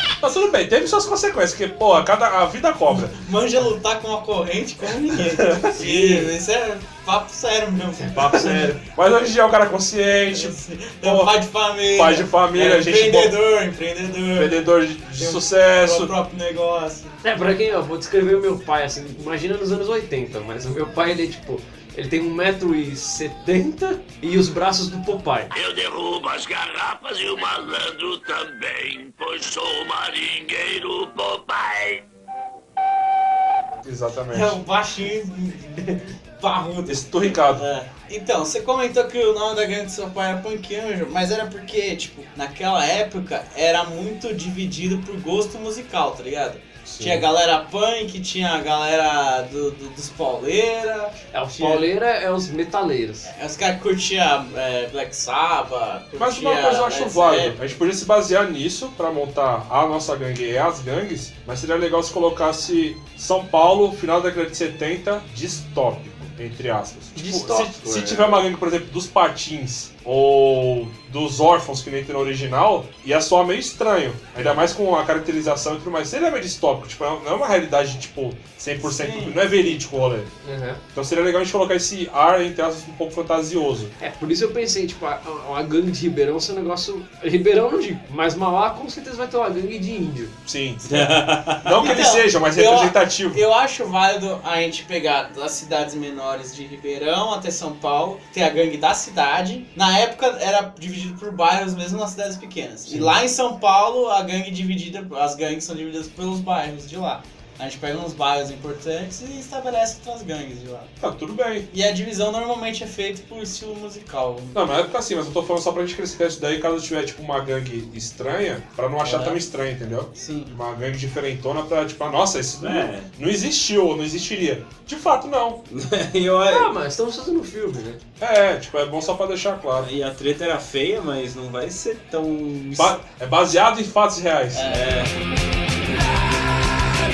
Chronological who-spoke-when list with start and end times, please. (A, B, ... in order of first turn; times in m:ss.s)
0:00.2-0:03.2 A
0:03.1-0:08.7 B
0:05.2-0:05.8 A
0:05.8-0:06.3 C
0:08.0-0:08.8 C
0:08.9-0:13.4 A
0:10.3-0:14.6 B
0:14.3-0:16.1 A
0:15.2-0:17.2 B
0:17.2-0:25.5 C
0:25.5-0:32.0 D
0:33.8-0:34.6 A
0:34.3-0:51.9 B
0:36.9-0:37.6 A
0:46.8-0:47.3 A
0:51.3-0:53.3 C
0:53.2-0:57.6 B
0:56.2-1:20.3 A
1:07.1-1:08.4 C
1:18.8-1:19.6 B
1:20.4-1:20.8 C
1:20.9-1:23.9 A
1:24.0-1:30.3 C
1:30.4-1:33.4 A
1:30.8-1:32.0 E
1:31.8-1:50.9 B
1:51.0-1:51.7 A
1:51.7-1:54.6 B
1:54.5-2:05.6 A
1:59.0-1:59.4 B
2:00.1-2:00.6 B
2:02.6-2:03.1 E
2:05.7-2:06.7 E
2:06.4-2:08.0 C
2:08.2-2:09.9 A
2:09.8-2:13.0 E
2:12.8-2:14.7 A
2:14.5-2:15.0 B
2:14.7-2:15.1 E